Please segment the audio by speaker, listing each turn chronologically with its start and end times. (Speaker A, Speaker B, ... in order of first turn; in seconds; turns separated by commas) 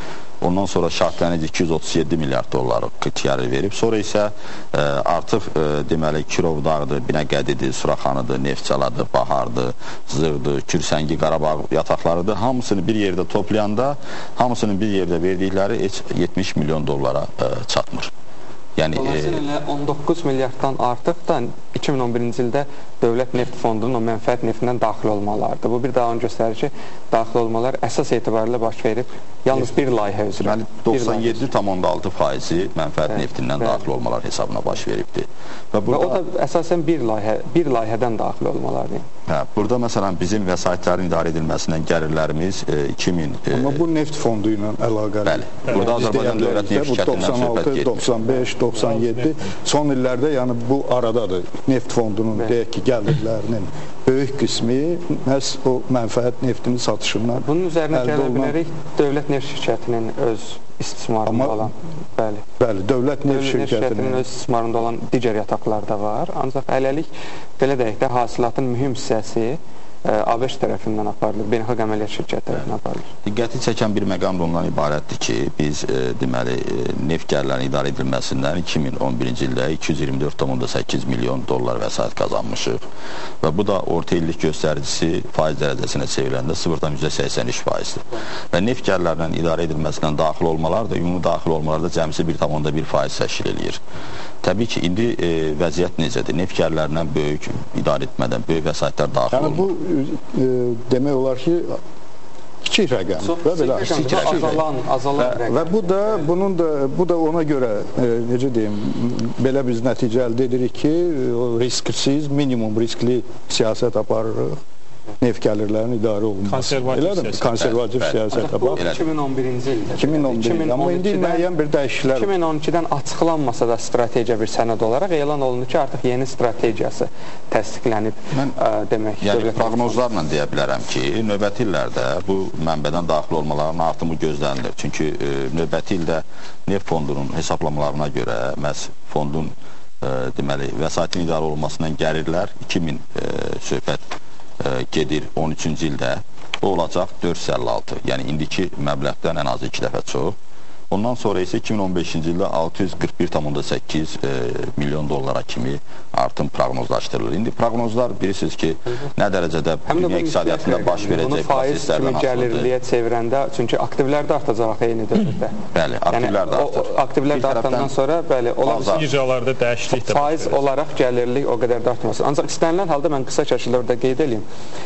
Speaker A: 0.4-18.1, Speaker A: 18.8-19.4, Speaker B: 18.9-31.4, Speaker A: 30.4-36.2, Speaker B: 33.1-33.8, Speaker B: 35.9-39.0, Speaker A: 39.3-43.8, Speaker C: 43.5-58.5, Speaker A: 45.2-48.0, Speaker D: 48.9-49.3, Speaker B: 57.4-62.4, Speaker C: 61.2-61.7, Speaker C: 62.6-64.2, Speaker B: 63.3-73.1, Speaker A: 73.2-82.8, Speaker A: 83.4-93.8, Speaker A: 94.4-99.7, Speaker C: 99.3-101.8, Speaker C: 102.6-104.7, Speaker B: 103.2-106.2, Speaker C: 105.2-114.6, Speaker C: 115.2-118.9, Speaker D: 116.5-117.6, Speaker A: 117.5-119.0, Speaker B: 118.3-121.5, Speaker C: 120.0-122.3, Speaker B: 122.1-130.0, Speaker A: 129.2-144.1, Speaker A: 144.6-150.4, Speaker A: 150.9-162.7, Speaker B: 159.9-165.6, Speaker A: 165.7-167.9, Speaker B: 166.1-169.1, Speaker A: 168.7-169.1, Speaker D: 168.8-170.6, Speaker B: 169.9-174.4